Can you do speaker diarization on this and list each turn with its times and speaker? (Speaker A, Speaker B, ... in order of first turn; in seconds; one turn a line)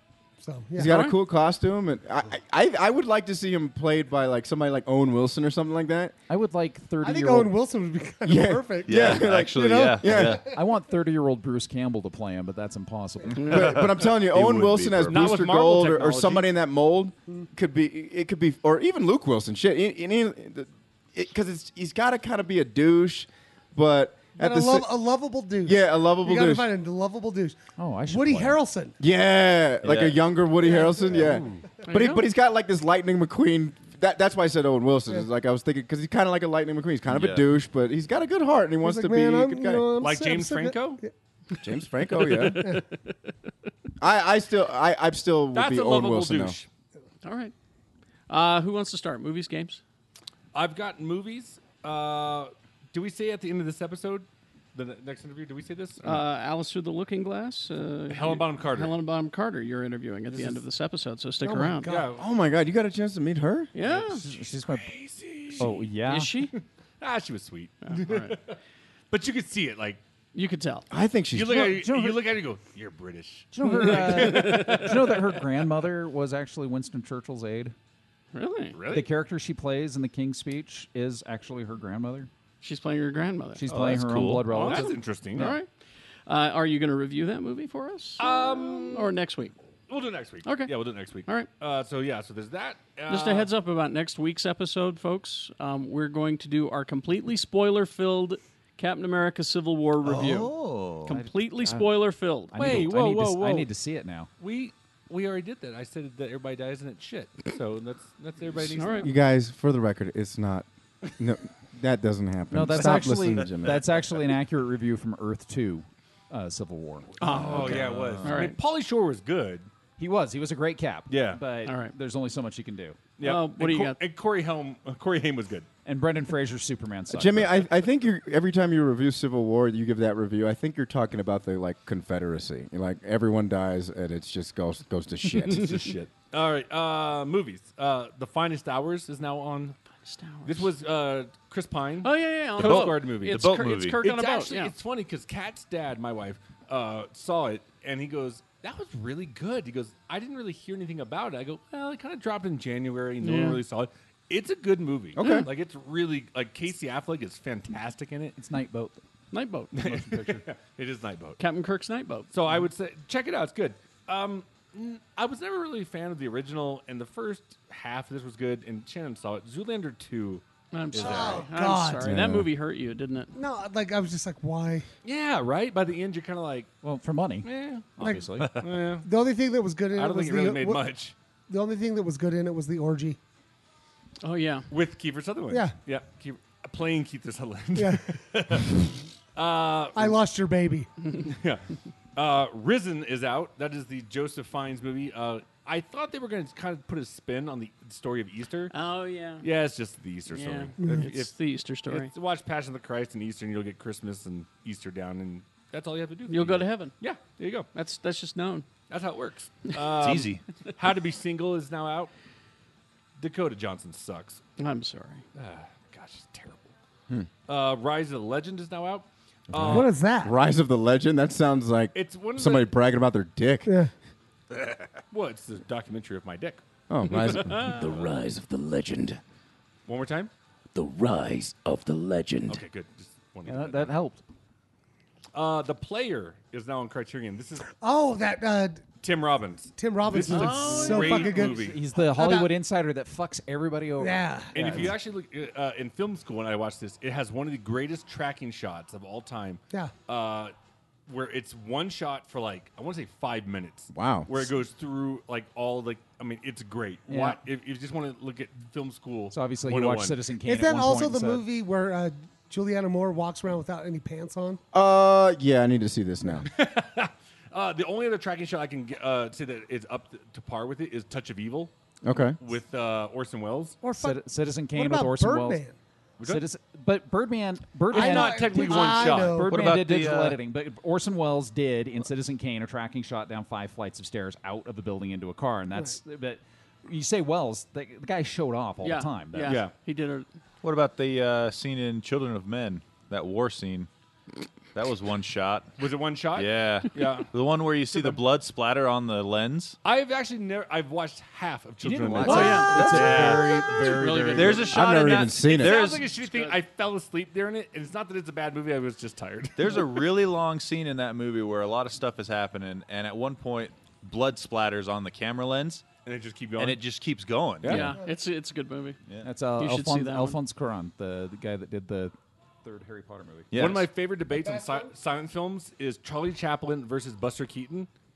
Speaker A: 0.4-1.0
Speaker B: 0.7-6.1
Speaker C: 0.8-1.2
Speaker D: 6.3-7.5
Speaker A: 7.0-10.6
Speaker B: 8.2-10.4
Speaker E: 8.8-10.4
Speaker D: 10.5-13.8
Speaker E: 13.4-15.3
Speaker B: 13.4-24.9
Speaker F: 15.1-16.5
Speaker A: 24.4-28.9
Speaker B: 25.6-26.7
Speaker D: 27.8-28.6
Speaker B: 29.0-39.9
Speaker E: 29.8-30.2
Speaker A: 30.6-31.6
Speaker C: 31.8-32.3
Speaker E: 37.1-37.5
Speaker A: 38.8-41.1
Speaker F: 40.0-41.0
Speaker B: 41.6-42.8
Speaker B: 44.0-46.6
Speaker F: 45.5-46.7
Speaker C: 47.2-47.5
Speaker C: 48.3-49.8
Speaker F: 50.5-56.1
Speaker C: 56.0-61.9
Speaker F: 58.1-59.0
Speaker F: 60.3-60.6
Speaker A: 61.4-62.1
Speaker F: 61.8-62.2
Speaker B: 62.2-63.7
Speaker C: 63.7-64.2
Speaker F: 63.8-65.9
Speaker D: 63.9-64.9
Speaker D: 65.5-66.3
Speaker C: 66.0-66.5
Speaker F: 67.0-68.6
Speaker C: 67.8-68.4
Speaker F: 69.1-70.0
Speaker C: 70.3-70.8
Speaker B: 70.9-71.7
Speaker F: 71.3-75.4
Speaker D: 71.5-72.2
Speaker D: 73.5-77.7
Speaker C: 73.6-74.9
Speaker C: 78.3-78.8
Speaker F: 78.7-79.2
Speaker D: 78.9-82.3
Speaker C: 82.6-83.6
Speaker D: 83.5-85.5
Speaker E: 83.7-84.7
Speaker F: 84.4-85.5
Speaker C: 84.5-85.7
Speaker C: 86.3-88.3
Speaker F: 88.2-89.1
Speaker C: 88.9-89.5
Speaker F: 89.9-93.5
Speaker C: 90.4-90.7
Speaker C: 93.1-100.5
Speaker E: 100.0-101.1
Speaker C: 101.0-102.8
Speaker D: 101.1-104.3
Speaker F: 102.5-103.7
Speaker F: 104.4-109.2
Speaker C: 108.7-109.1
Speaker B: 109.0-114.0
Speaker D: 112.5-118.1
Speaker C: 117.2-118.6
Speaker F: 117.2-119.7
Speaker E: 117.3-118.4
Speaker D: 120.0-123.1
Speaker F: 121.1-121.4
Speaker C: 121.6-121.9
Speaker F: 123.2-125.7
Speaker C: 123.2-124.0
Speaker D: 125.8-127.6
Speaker B: 127.1-135.9
Speaker F: 135.3-139.8
Speaker C: 140.0-140.7
Speaker F: 140.4-158.4
Speaker C: 142.0-144.7
Speaker E: 142.6-144.0
Speaker C: 153.2-153.6
Speaker B: 155.2-155.5
Speaker D: 158.4-159.0
Speaker C: 159.3-159.7
Speaker F: 159.8-161.4
Speaker D: 159.8-160.4
Speaker C: 161.4-162.3
Speaker F: 162.3-171.5
Speaker C: 170.7-173.3
Speaker A: 171.0-172.1
Speaker B: 172.1-172.4
Speaker A: 173.3-174.9
Speaker F: 175.0-176.7
Speaker D: 176.8-178.6
Speaker F: 177.4-177.9
Speaker A: 178.0-178.4
Speaker F: 178.6-179.1
Speaker A: 179.0-180.9
Speaker F: 179.9-181.1
Speaker A: 181.5-183.2
Speaker C: 184.2-184.7
Speaker F: 184.7-188.8
Speaker A: 185.5-185.8
Speaker A: 187.8-188.1
Speaker F: 189.3-190.2
Speaker A: 189.9-190.9
Speaker F: 191.2-191.6
Speaker F: 192.1-198.7
Speaker C: 198.7-199.5
Speaker F: 199.4-201.3
Speaker C: 200.3-202.1
Speaker F: 201.9-207.7
Speaker C: 206.3-206.9
Speaker C: 207.7-208.7
Speaker F: 208.9-212.1
Speaker E: 210.0-210.4
Speaker F: 213.2-214.4
Speaker C: 214.6-215.2
Speaker F: 215.3-216.7
Speaker F: 217.5-220.0
Speaker B: 219.5-223.7
Speaker A: 219.6-220.3
Speaker F: 221.9-222.7
Speaker A: 223.7-223.9
Speaker F: 225.1-226.6
Speaker B: 226.9-227.8
Speaker G: 227.5-229.2
Speaker F: 229.8-230.3
Speaker G: 230.7-232.6
Speaker F: 232.5-234.0
Speaker D: 233.4-234.2
Speaker F: 235.3-237.7
Speaker A: 237.8-238.8
Speaker F: 239.0-241.8
Speaker A: 239.8-242.5
Speaker D: 240.3-245.0
Speaker A: 244.0-244.8
Speaker F: 244.5-250.5
Speaker F: 251.1-260.2
Speaker B: 253.9-254.4
Speaker D: 257.1-257.4
Speaker D: 259.3-261.4
Speaker A: 260.4-264.6
Speaker B: 264.7-266.5
Speaker F: 266.4-271.7
Speaker B: 272.0-272.4
Speaker F: 272.4-273.8
Speaker A: 273.8-275.8
Speaker D: 273.9-275.6
Speaker F: 276.2-276.4
Speaker D: 276.2-289.6
Speaker F: 277.9-279.5
Speaker A: 277.9-279.6
Speaker E: 279.4-280.4
Speaker C: 288.8-290.3
Speaker F: 289.4-289.7
Speaker E: 290.6-293.9
Speaker E: 294.7-295.8
Speaker F: 295.8-297.3
Speaker E: 296.3-299.8
Speaker F: 297.9-298.2
Speaker F: 299.8-304.6
Speaker D: 301.8-304.7
Speaker E: 302.1-303.7
Speaker C: 302.2-303.0
Speaker C: 303.9-304.7
Speaker E: 304.3-306.1
Speaker B: 304.7-305.8
Speaker F: 305.5-310.1
Speaker C: 306.2-306.6
Speaker E: 309.6-315.8
Speaker F: 316.0-316.8
Speaker E: 316.6-317.9
Speaker F: 317.6-317.9
Speaker C: 317.6-319.0
Speaker D: 319.2-322.1
Speaker C: 319.6-320.4
Speaker D: 322.6-323.5
Speaker E: 323.5-323.9
Speaker F: 323.5-327.9
Speaker A: 324.3-324.9